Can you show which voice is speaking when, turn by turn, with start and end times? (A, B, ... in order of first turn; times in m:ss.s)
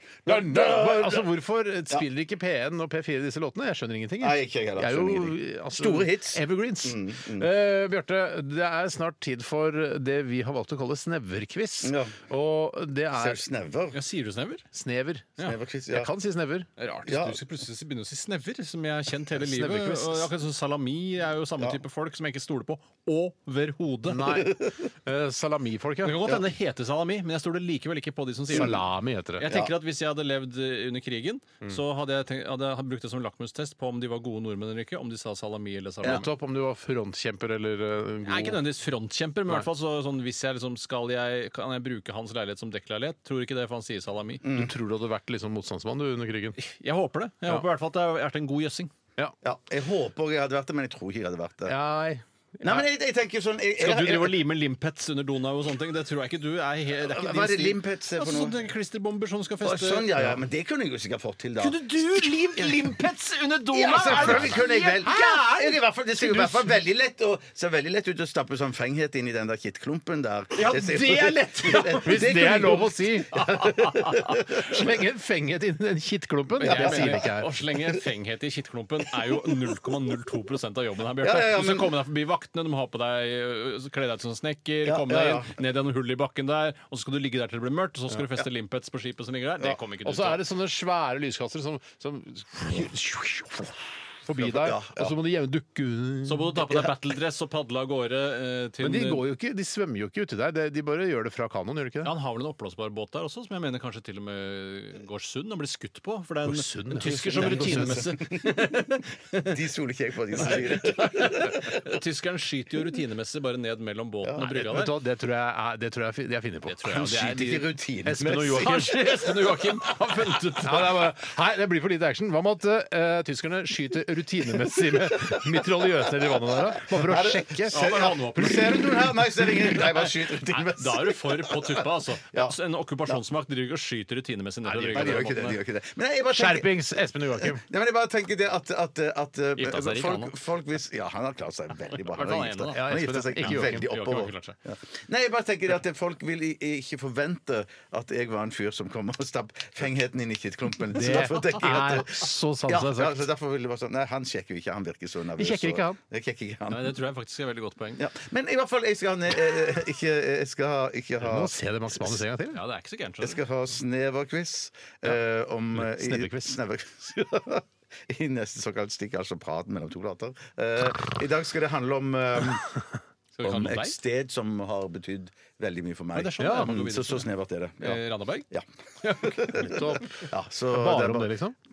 0:00.2-0:01.3 A
0:00.2-0:13.4 B
0:04.2-0:07.5 A
0:11.8-0:12.2 A
0:13.2-0:14.0 A
0:13.9-0:14.6 C
0:14.7-0:16.7 B
0:15.4-0:16.1 A
0:16.8-0:24.4 C
0:17.1-0:17.4 A
0:19.4-0:20.3 B
0:24.1-0:26.3 B
0:26.0-0:28.8 C
0:28.5-0:29.5 B
0:29.4-0:36.3 C
0:36.0-0:38.6 B
0:38.2-0:44.4 C
0:44.4-0:44.7 A
0:44.5-0:46.6 B
0:46.6-0:48.9 C
0:49.4-0:51.8 A
0:51.6-0:52.9 B
0:52.6-0:54.4 A
0:53.8-1:00.1 C
0:57.0-0:58.6 A
0:59.6-1:02.7 A
1:01.6-1:05.1 C
1:03.7-1:14.8 A
1:04.0-1:06.8 B
1:10.5-1:12.5 C
1:10.7-1:14.0 B
1:13.3-1:14.4 C
1:14.5-1:17.5 B
1:16.6-1:30.4 C
1:16.6-1:17.3 A
1:21.2-1:21.9 A
1:24.8-1:25.5 A
1:30.0-1:36.6 B
1:34.4-1:35.2 A
1:36.2-1:39.2 C
1:38.8-1:42.1 B
1:42.0-1:49.6 C
1:46.4-1:48.0 B
1:46.9-1:48.8 A
1:49.4-1:51.8 A
1:50.4-1:54.9 C
1:54.2-1:54.6 A
1:54.5-1:57.5 B
1:56.7-1:57.6 C
1:56.9-1:59.0 A
1:58.0-1:59.0 B
1:58.2-2:00.9 C
2:00.6-2:07.8 B
2:05.1-2:05.6 A
2:06.7-2:12.6 A
2:07.7-2:08.9 C
2:09.4-2:15.6 C
2:14.6-2:15.4 B
2:14.9-2:36.9 A
2:16.3-2:17.6 B
2:19.6-2:20.4 C
2:21.9-2:24.6 C
2:22.7-2:23.9 B
2:30.9-2:33.3 B
2:35.4-2:36.0 B
2:36.7-2:38.1 C
2:38.0-2:42.2 A
2:41.2-2:42.6 B
2:42.5-2:43.4 C
2:43.2-2:52.7 A
2:45.7-2:46.6 B
2:53.4-2:54.0 C
2:53.4-2:58.6 A
2:56.1-2:57.3 C
2:56.4-2:56.7 B
2:57.8-2:58.5 C
2:59.0-2:59.6 C
2:59.2-3:01.3 A
2:59.6-3:01.6 B